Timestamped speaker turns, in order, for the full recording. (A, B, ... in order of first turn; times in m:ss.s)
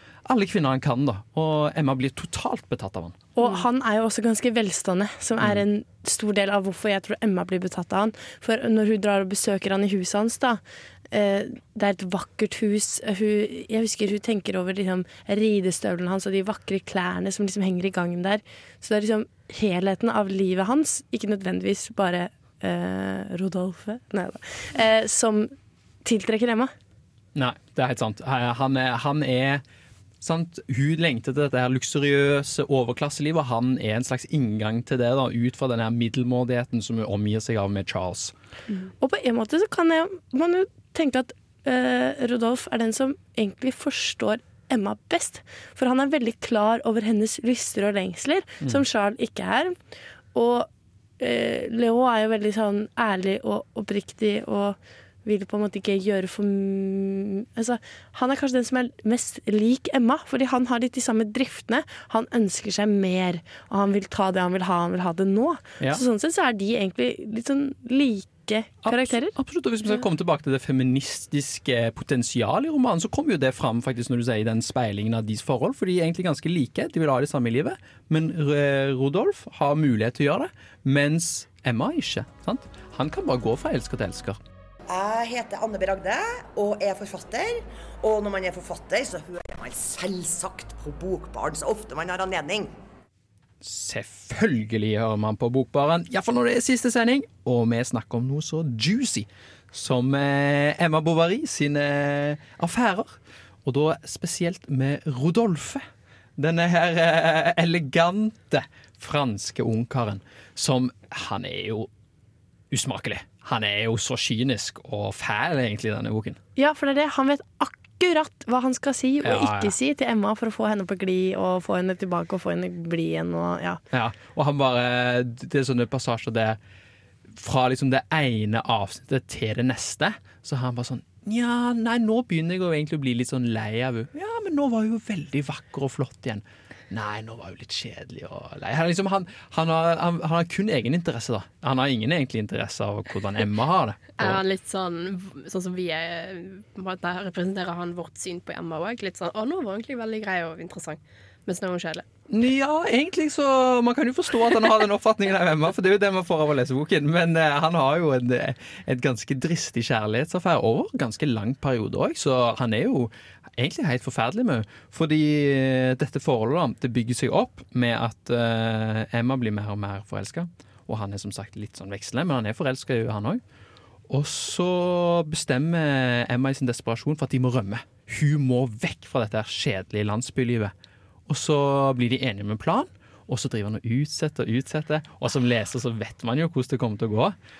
0:00.2-0:03.2 A
0:03.4-0:10.6 B
0:11.1-0:25.5 B
0:26.0-0:26.7 B
0:27.3-0:29.6 A
0:30.2-0:38.3 A
0:39.0-0:49.7 B
0:50.3-0:50.7 B
0:51.2-1:09.3 B
1:08.8-1:24.4 A
1:24.9-1:32.8 C
1:33.6-1:45.8 A
1:46.4-1:51.9 A
1:52.7-1:56.4 A
1:56.6-2:03.8 B
1:59.2-1:59.7 A
2:03.9-2:06.6 A
2:07.3-2:24.4 A
2:24.2-2:32.0 D
2:32.3-2:53.4 A
2:54.1-3:00.7 A
3:01.3-3:07.4 A